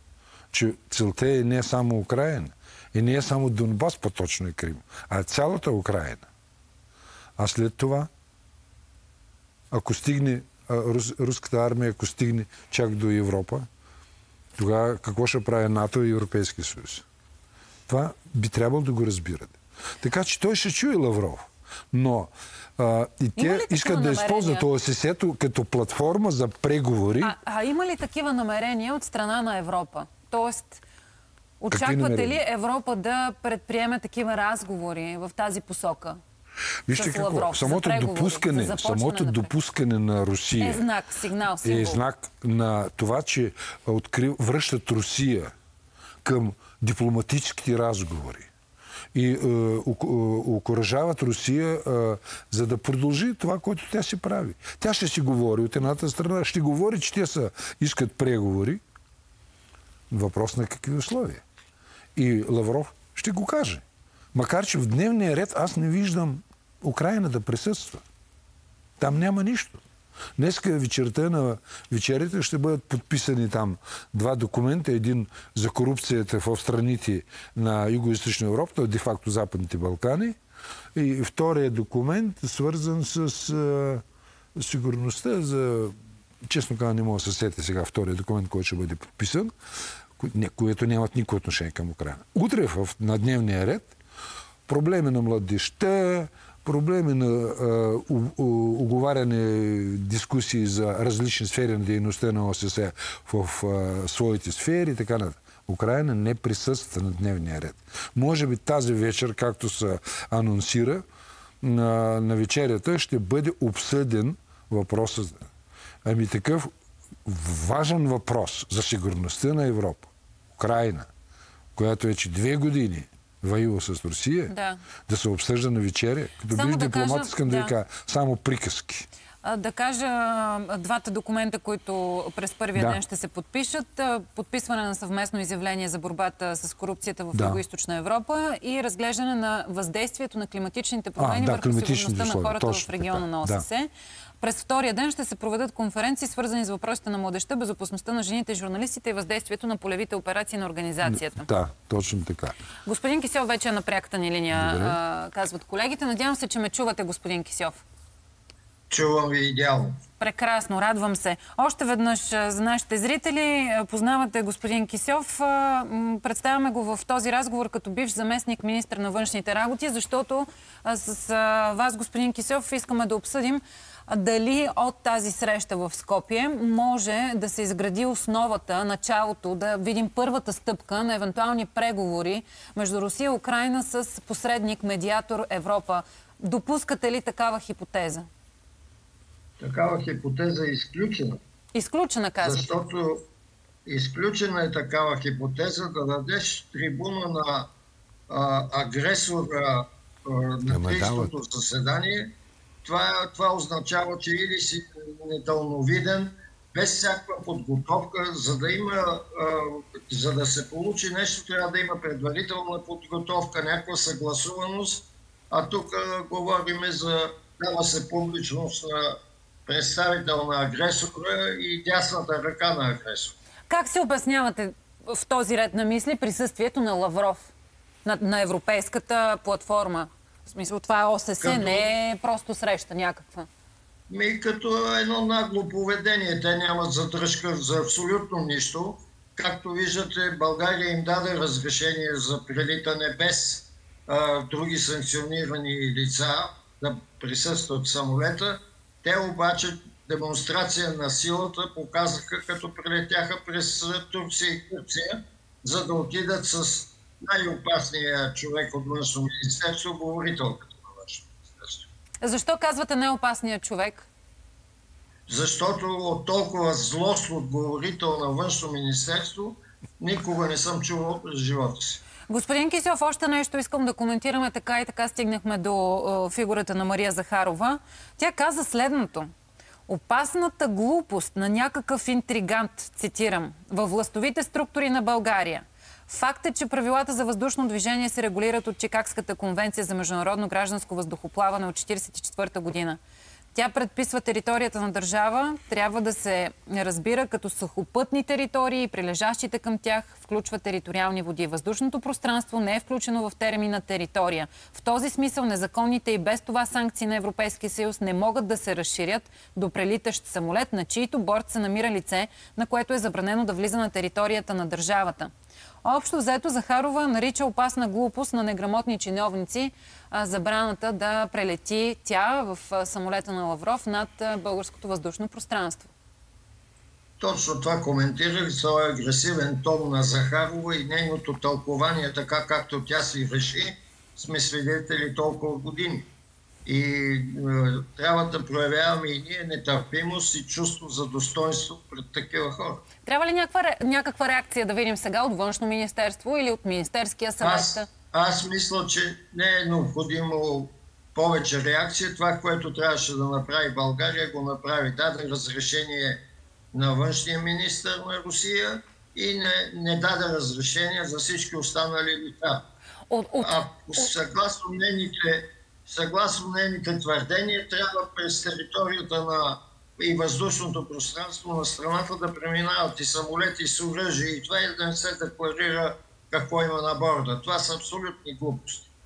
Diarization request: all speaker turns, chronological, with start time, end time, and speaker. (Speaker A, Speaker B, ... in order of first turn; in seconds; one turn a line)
Speaker A: 0.5-6.3
Speaker A: 7.4-8.1
Speaker A: 9.7-13.7
Speaker A: 14.6-17.0
Speaker A: 17.9-27.3
Speaker B: 23.4-24.6
Speaker B: 27.2-30.8
Speaker B: 31.6-36.2
Speaker A: 31.7-32.4
Speaker A: 36.9-40.8
Speaker B: 36.9-39.5
Speaker B: 40.6-42.0
Speaker A: 41.6-45.5
Speaker A: 46.2-48.5
Speaker A: 49.1-58.8
Speaker A: 60.1-61.4
Speaker A: 62.1-68.0
Speaker A: 69.0-69.8
Speaker A: 70.4-80.3
Speaker A: 80.9-84.0
Speaker A: 84.6-89.5
Speaker A: 90.2-93.9
Speaker A: 94.7-111.0
Speaker A: 111.6-115.5
Speaker A: 116.0-116.7
Speaker A: 117.2-121.1
Speaker A: 121.8-124.5
Speaker B: 124.5-124.8
Speaker A: 125.1-129.1
Speaker B: 126.5-127.7
Speaker B: 129.4-143.9
Speaker A: 132.7-133.0
Speaker A: 137.3-137.6
Speaker A: 141.2-143.7
Speaker B: 144.4-151.5
Speaker A: 151.0-152.6
Speaker B: 152.8-157.8
Speaker A: 154.5-155.0
Speaker C: 158.9-159.9
Speaker B: 160.2-188.3
Speaker C: 189.6-191.4
Speaker B: 191.7-192.7
Speaker C: 192.4-193.2
Speaker C: 193.8-197.7
Speaker C: 198.3-202.3
Speaker A: 200.7-201.3
Speaker C: 202.8-219.1
Speaker C: 219.7-223.3
Speaker B: 223.7-227.5
Speaker B: 228.0-233.5
Speaker C: 231.4-231.8
Speaker C: 234.1-261.9
Speaker B: 262.2-264.1
Speaker C: 265.3-272.0
Speaker B: 272.3-279.3
Speaker B: 279.9-293.0
Speaker B: 293.5-315.3
Speaker B: 315.8-325.9
Speaker C: 327.2-336.1
Speaker C: 336.6-342.8
Speaker B: 343.0-347.9
Speaker C: 347.4-356.2
Speaker C: 356.7-362.6
Speaker B: 363.1-364.1
Speaker C: 363.4-378.9